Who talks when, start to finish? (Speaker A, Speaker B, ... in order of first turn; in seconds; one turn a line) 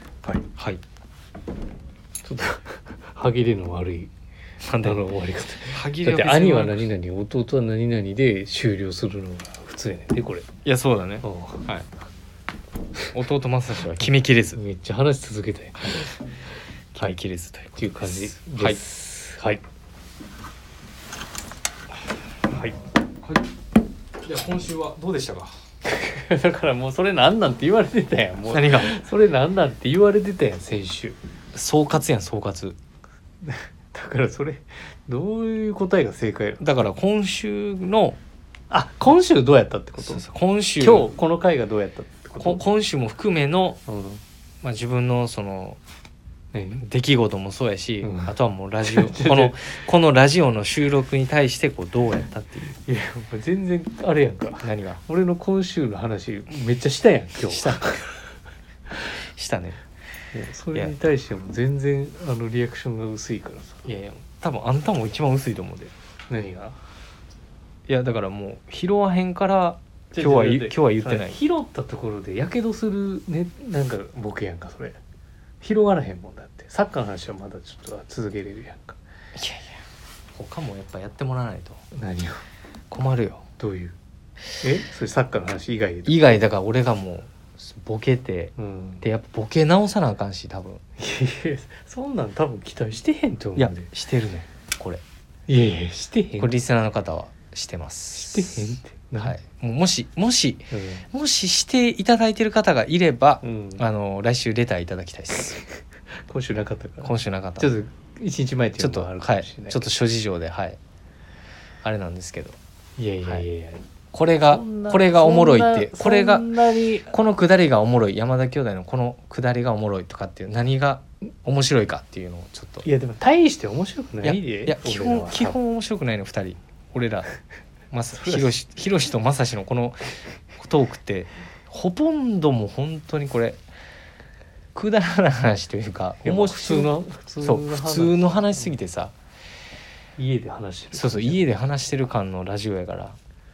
Speaker A: 0.6-0.8
Speaker B: 2.2-4.1
Speaker A: 4.6-5.0
Speaker B: 4.8-10.5
Speaker A: 5.7-6.9
Speaker A: 10.7-11.9
Speaker B: 11.2-11.7
Speaker A: 13.1-14.6
Speaker B: 14.6-16.1
Speaker A: 15.8-16.1
Speaker A: 16.9-18.8
Speaker B: 17.8-19.6
Speaker B: 22.5-22.8
Speaker A: 23.2-23.5
Speaker A: 24.2-25.6
Speaker B: 25.9-31.2
Speaker A: 28.4-28.9
Speaker A: 31.5-32.8
Speaker B: 33.4-36.6
Speaker A: 36.6-38.2
Speaker B: 38.7-40.2
Speaker A: 40.0-41.1
Speaker B: 40.8-42.6
Speaker A: 42.4-43.8
Speaker B: 43.9-44.2
Speaker A: 44.6-45.8
Speaker B: 46.5-46.9
Speaker A: 46.8-52.8
Speaker B: 48.0-49.6
Speaker B: 52.9-58.1
Speaker A: 54.6-55.0
Speaker A: 57.5-58.0
Speaker A: 59.0-59.8
Speaker B: 60.3-63.9
Speaker A: 63.9-65.9
Speaker B: 66.3-66.8
Speaker A: 67.9-71.4
Speaker B: 70.1-75.0
Speaker B: 75.6-79.0
Speaker A: 79.3-79.8
Speaker A: 80.3-81.8
Speaker B: 81.9-82.4
Speaker A: 82.9-83.5
Speaker B: 83.6-84.0
Speaker B: 84.6-86.5
Speaker A: 86.1-90.8
Speaker B: 88.6-89.0
Speaker B: 91.0-93.9
Speaker A: 93.6-95.0
Speaker B: 95.5-96.6
Speaker A: 96.4-105.6
Speaker B: 98.1-99.4
Speaker B: 100.7-101.1
Speaker B: 103.4-103.8
Speaker B: 106.3-109.8
Speaker A: 107.0-107.7
Speaker A: 108.8-110.8
Speaker A: 111.8-112.6
Speaker B: 113.0-113.8
Speaker A: 114.1-116.5
Speaker B: 114.5-117.1
Speaker A: 117.1-122.9
Speaker B: 122.8-125.6
Speaker A: 124.2-127.3
Speaker A: 127.9-133.6
Speaker A: 134.8-139.1
Speaker B: 136.2-138.7
Speaker B: 140.2-141.4
Speaker A: 140.9-143.2